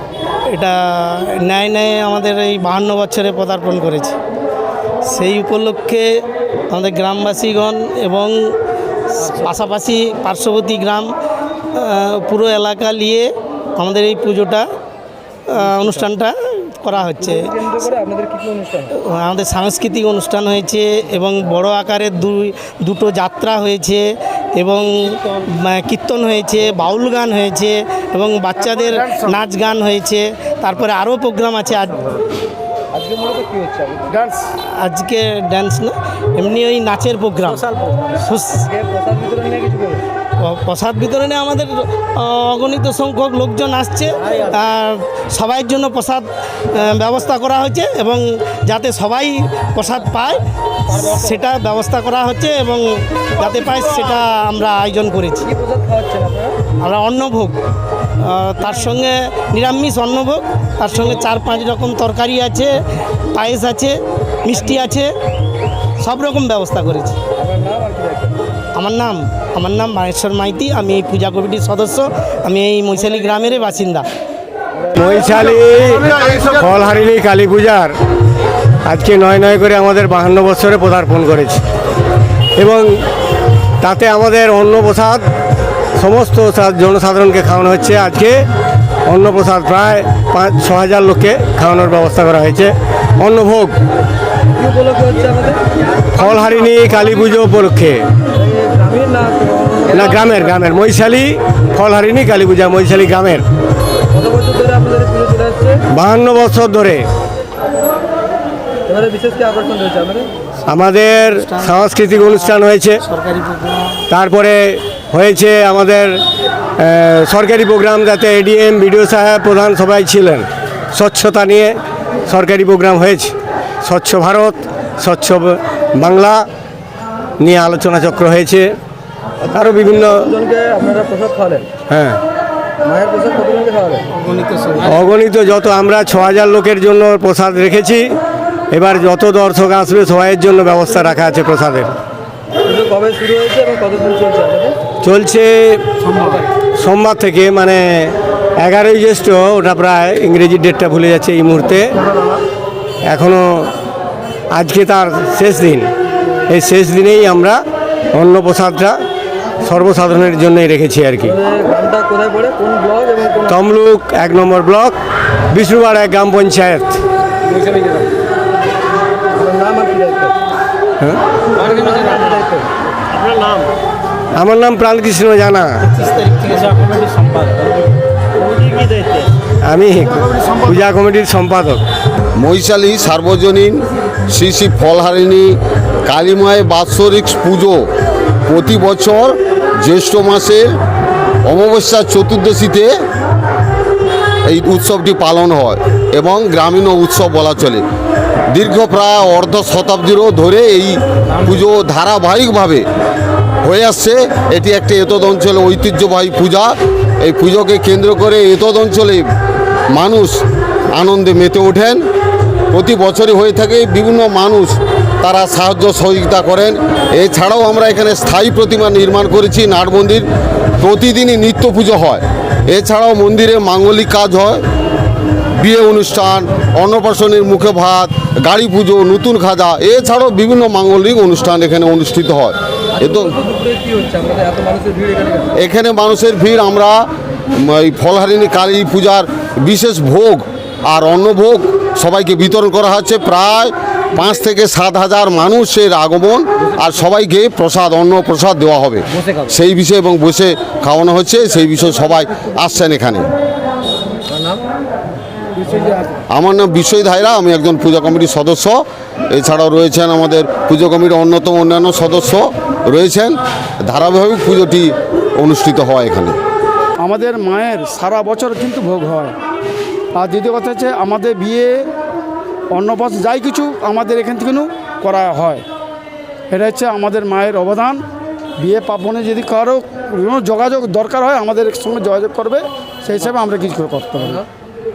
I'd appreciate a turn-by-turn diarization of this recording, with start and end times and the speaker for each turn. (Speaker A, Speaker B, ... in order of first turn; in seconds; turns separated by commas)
Speaker A: 0.5-4.2, Speaker A: 5.0-8.6, Speaker A: 9.2-11.1, Speaker A: 11.7-14.7, Speaker A: 15.5-17.5, Speaker B: 17.2-18.9, Speaker A: 18.9-32.2, Speaker C: 28.6-29.4, Speaker B: 32.9-34.1, Speaker C: 34.1-34.5, Speaker A: 34.7-37.6, Speaker B: 37.8-38.0, Speaker A: 38.2-38.7, Speaker B: 38.5-40.0, Speaker A: 40.4-55.5, Speaker B: 50.9-51.3, Speaker B: 55.5-56.6, Speaker A: 56.8-57.6, Speaker A: 58.2-65.1, Speaker A: 66.0-67.2, Speaker B: 67.3-68.4, Speaker A: 68.8-74.1, Speaker D: 74.9-78.0, Speaker D: 78.8-81.6, Speaker D: 82.6-83.0, Speaker D: 83.8-85.2, Speaker D: 86.0-88.5, Speaker D: 89.1-93.8, Speaker B: 94.6-95.6, Speaker D: 96.1-98.0, Speaker B: 98.3-100.6, Speaker D: 99.9-103.5, Speaker B: 104.1-105.8, Speaker D: 105.9-107.1, Speaker B: 108.9-110.3, Speaker D: 110.7-113.0, Speaker A: 111.3-114.1, Speaker D: 114.1-116.2, Speaker D: 116.8-126.5, Speaker D: 127.4-128.8, Speaker B: 129.5-131.7, Speaker D: 129.5-130.3, Speaker D: 131.9-132.2, Speaker B: 132.8-134.1, Speaker A: 134.1-134.9, Speaker D: 134.8-138.2, Speaker D: 138.7-141.9, Speaker B: 142.7-144.8, Speaker D: 145.0-145.9, Speaker B: 146.2-146.5, Speaker D: 146.6-152.0, Speaker D: 153.1-153.7, Speaker D: 154.5-155.9, Speaker D: 156.5-159.0, Speaker D: 159.6-161.3, Speaker B: 161.3-163.6, Speaker D: 163.5-165.0, Speaker D: 165.5-167.0, Speaker B: 169.3-170.3, Speaker B: 171.5-172.7, Speaker D: 174.3-175.8, Speaker A: 175.8-177.2, Speaker B: 178.4-179.3, Speaker D: 179.6-181.8, Speaker E: 182.4-187.9, Speaker E: 188.5-190.7, Speaker E: 191.4-192.9, Speaker E: 194.4-197.9, Speaker E: 198.5-202.9, Speaker E: 203.6-209.3, Speaker E: 209.9-212.1, Speaker E: 212.7-220.3, Speaker E: 220.8-224.6, Speaker E: 225.6-233.3, Speaker B: 233.0-235.5, Speaker E: 235.6-253.3, Speaker B: 254.3-254.6, Speaker B: 255.6-256.1, Speaker E: 256.3-266.4, Speaker C: 267.0-269.4, Speaker C: 270.1-271.9, Speaker C: 272.7-275.6, Speaker C: 276.5-278.0, Speaker C: 278.6-284.4